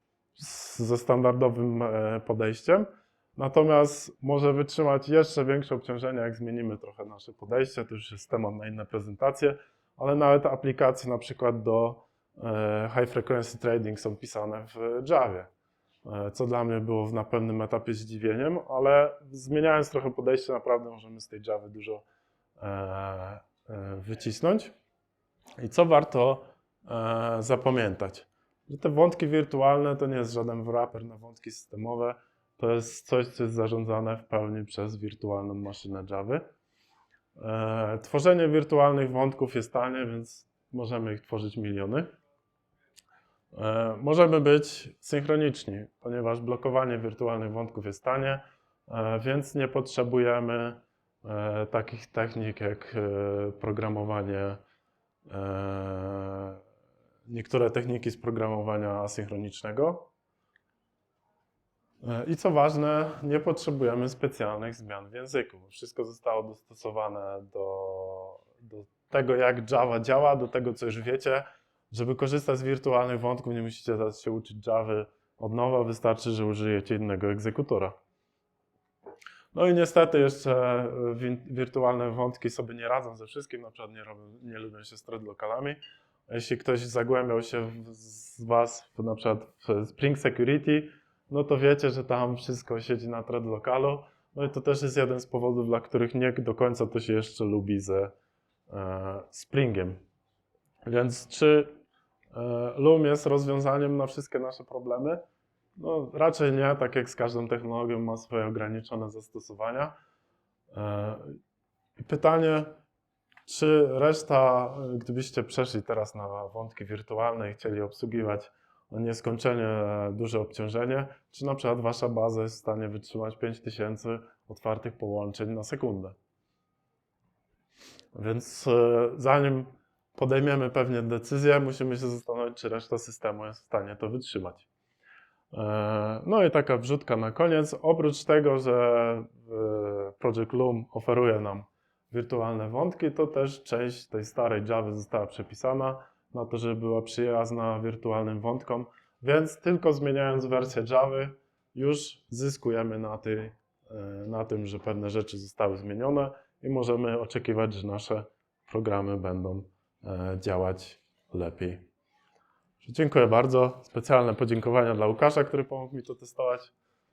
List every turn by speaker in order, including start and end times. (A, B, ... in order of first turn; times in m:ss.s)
0:00.4-0:15.5 A
0:16.0-0:22.0 A
0:22.6-0:24.7 A
0:25.6-0:36.4 A
0:37.4-0:42.1 A
0:43.5-0:54.6 A
0:55.3-0:56.6 A
0:57.3-1:00.1 A
1:02.0-1:18.0 A
1:19.5-1:38.1 A
1:38.7-1:40.0 A
1:40.8-1:41.7 A
1:42.3-1:45.2 A
1:45.8-1:49.9 A
1:50.7-1:51.4 A
1:52.0-1:52.8 A
1:53.5-2:06.2 A
2:08.1-2:14.7 A
2:15.5-2:41.8 A
2:42.8-2:46.7 A